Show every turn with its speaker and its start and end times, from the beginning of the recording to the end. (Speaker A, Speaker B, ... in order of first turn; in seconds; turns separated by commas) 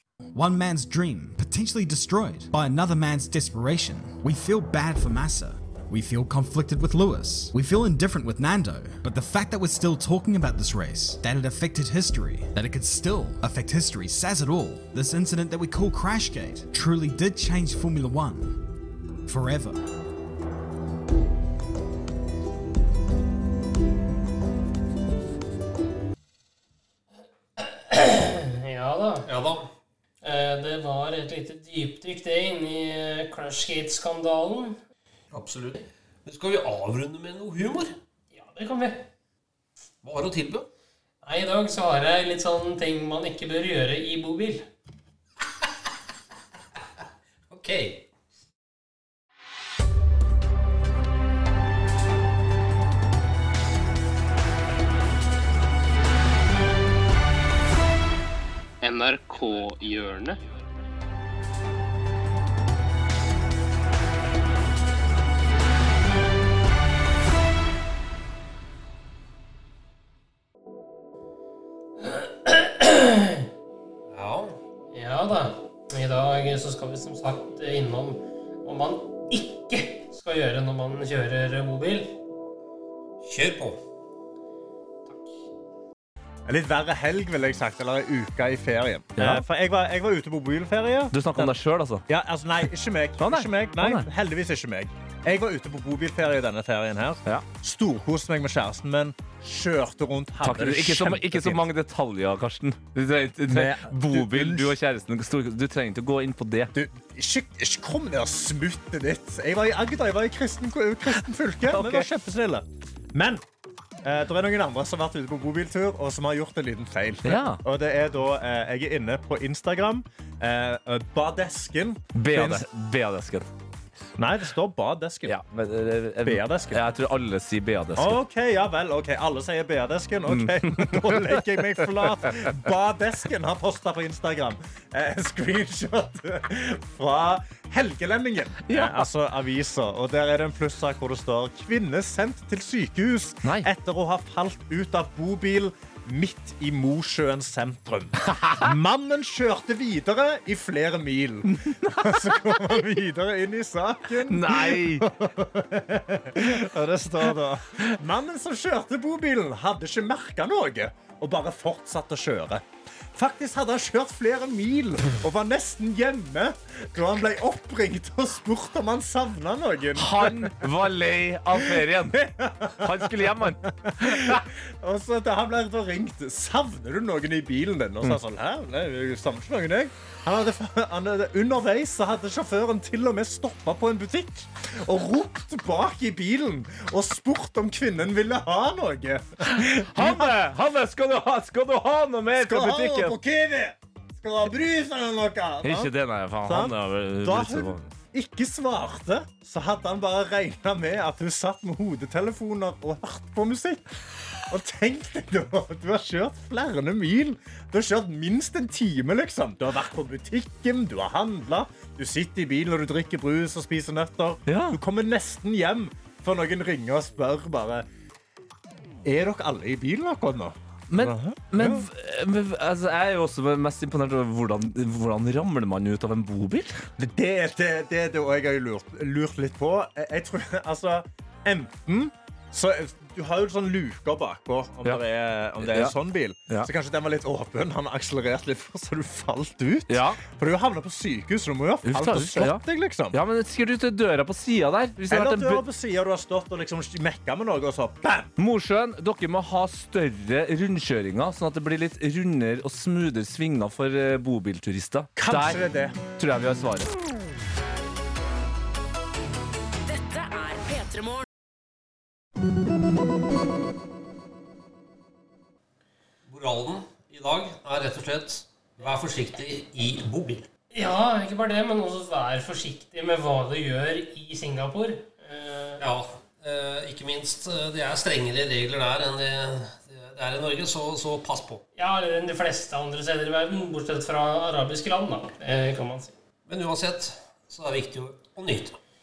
Speaker A: 0.3-18.6, Speaker A: 19.2-19.8, Speaker B: 27.6-29.3, Speaker C: 29.2-29.7, Speaker B: 30.2-34.8, Speaker C: 35.3-37.9, Speaker B: 38.3-39.0, Speaker C: 40.0-40.7, Speaker B: 41.2-44.6, Speaker C: 47.5-48.1, Speaker B: 58.8-60.4, Speaker B: 72.0-73.4, Speaker C: 74.1-74.6, Speaker B: 74.9-82.2, Speaker C: 83.2-83.8, Speaker B: 85.1-85.3, Speaker D: 86.5-91.5, Speaker E: 89.2-89.4, Speaker E: 91.1-92.0, Speaker D: 92.1-101.7, Speaker E: 93.2-94.1, Speaker E: 100.4-106.7, Speaker D: 103.5-104.7, Speaker D: 106.7-113.4, Speaker E: 111.1-112.1, Speaker D: 114.0-122.7, Speaker E: 117.2-117.6, Speaker E: 122.1-123.5, Speaker D: 124.2-125.4, Speaker E: 125.2-128.2, Speaker D: 126.2-126.8, Speaker D: 128.0-170.7, Speaker E: 130.2-132.6, Speaker E: 138.7-139.1, Speaker E: 143.4-143.7, Speaker E: 148.2-148.7, Speaker E: 151.5-152.8, Speaker E: 154.2-155.1, Speaker E: 169.9-172.2, Speaker D: 171.5-190.3, Speaker E: 172.7-174.4, Speaker E: 189.4-193.2, Speaker D: 192.3-195.9, Speaker E: 195.6-197.9, Speaker D: 196.4-203.8, Speaker D: 204.5-217.8, Speaker E: 214.4-214.8, Speaker D: 219.0-221.8, Speaker E: 220.9-226.8, Speaker D: 227.0-243.2, Speaker E: 235.6-236.7, Speaker E: 239.9-240.2, Speaker E: 241.8-245.6, Speaker D: 245.1-248.3, Speaker E: 248.4-256.9, Speaker D: 255.2-256.0, Speaker C: 266.2-270.5, Speaker B: 270.7-275.8, Speaker C: 275.8-281.6, Speaker B: 281.7-286.1, Speaker C: 286.4-288.8